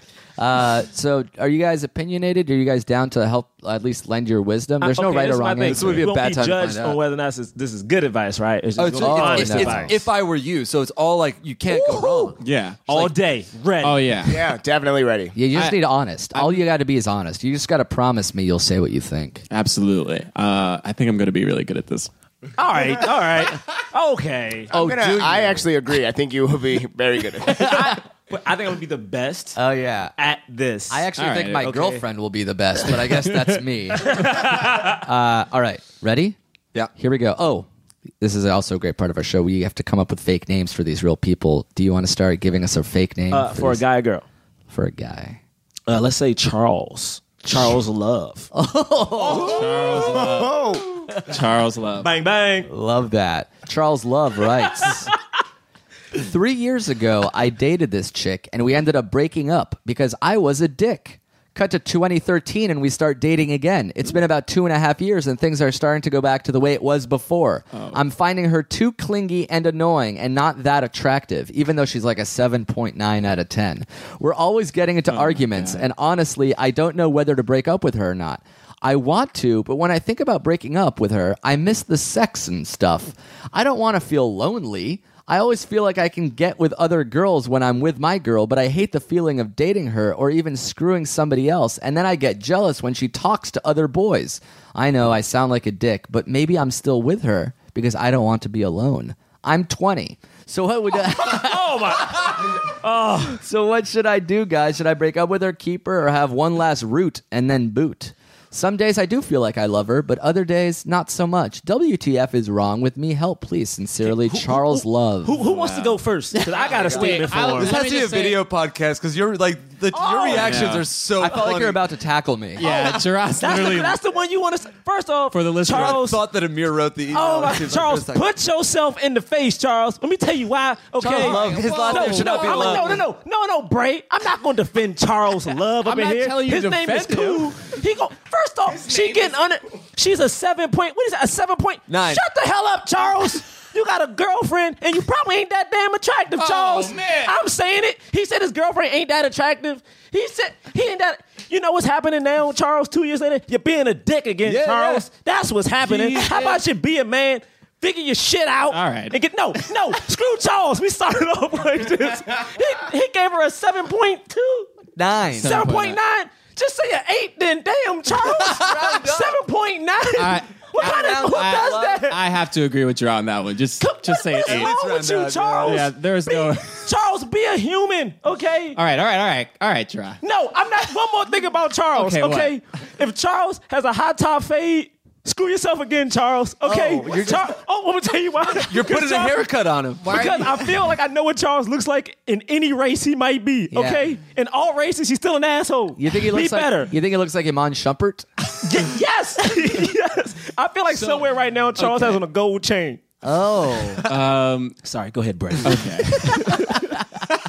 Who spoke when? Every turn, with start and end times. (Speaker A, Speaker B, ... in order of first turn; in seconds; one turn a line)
Speaker A: 0.4-6.1
Speaker B: 4.8-10.0
Speaker C: 5.7-7.0
Speaker C: 8.8-12.4
Speaker A: 9.0-9.9
Speaker B: 11.7-12.3
Speaker D: 12.4-13.1
Speaker B: 12.9-14.1
Speaker D: 13.8-14.5
Speaker E: 14.2-15.3
Speaker A: 15.3-19.4
Speaker D: 15.5-15.8
Speaker D: 16.3-16.6
Speaker D: 19.5-22.1
Speaker B: 22.6-24.7
Speaker A: 24.7-25.7
Speaker E: 24.7-28.0
Speaker B: 27.6-29.6
Speaker A: 29.6-30.1
Speaker B: 30.2-32.0
Speaker A: 30.9-34.4
Speaker D: 31.2-31.7
Speaker D: 33.1-33.6
Speaker B: 34.0-34.9
Speaker A: 34.9-36.4
Speaker A: 37.0-37.7
Speaker A: 38.2-43.8
Speaker B: 43.3-44.2
Speaker A: 44.7-45.4
Speaker B: 45.9-48.5
Speaker A: 47.5-47.7
Speaker A: 48.5-49.6
Speaker E: 49.3-51.0
Speaker D: 49.3-50.6
Speaker D: 51.2-52.1
Speaker B: 52.0-52.7
Speaker A: 52.7-55.1
Speaker A: 56.1-102.5
Speaker D: 67.7-68.0
Speaker D: 75.1-75.9
Speaker B: 101.2-103.4
Speaker A: 103.2-115.4
Speaker B: 114.0-117.7
Speaker D: 115.4-116.0
Speaker C: 116.6-121.8
Speaker D: 116.8-118.4
Speaker B: 119.9-120.7
Speaker D: 120.3-120.9
Speaker A: 121.2-122.7
Speaker D: 122.6-124.0
Speaker B: 122.6-126.2
Speaker D: 125.3-126.0
Speaker C: 125.7-128.3
Speaker B: 127.1-164.7
Speaker D: 131.0-132.9
Speaker A: 131.2-131.9
Speaker C: 131.2-133.0
Speaker D: 135.8-137.6
Speaker E: 138.7-139.3
Speaker C: 141.9-142.2
Speaker D: 146.4-146.9
Speaker A: 154.4-154.9
Speaker D: 155.8-156.6
Speaker D: 158.7-159.2
Speaker A: 164.9-165.7
Speaker D: 165.4-166.0
Speaker B: 165.4-172.2
Speaker A: 168.5-169.3
Speaker D: 170.2-174.7
Speaker A: 170.8-171.8
Speaker B: 173.8-178.8
Speaker C: 174.4-175.9
Speaker D: 175.6-176.9
Speaker D: 178.8-180.2
Speaker B: 180.2-189.4
Speaker D: 181.9-182.6
Speaker A: 186.6-187.5
Speaker C: 188.7-190.4
Speaker B: 190.0-196.9
Speaker D: 190.2-190.5
Speaker A: 193.7-194.1
Speaker A: 195.9-198.3
Speaker B: 198.6-203.0
Speaker D: 200.9-202.2
Speaker A: 203.2-204.0
Speaker D: 204.1-204.8
Speaker B: 204.8-206.8
Speaker D: 205.6-206.5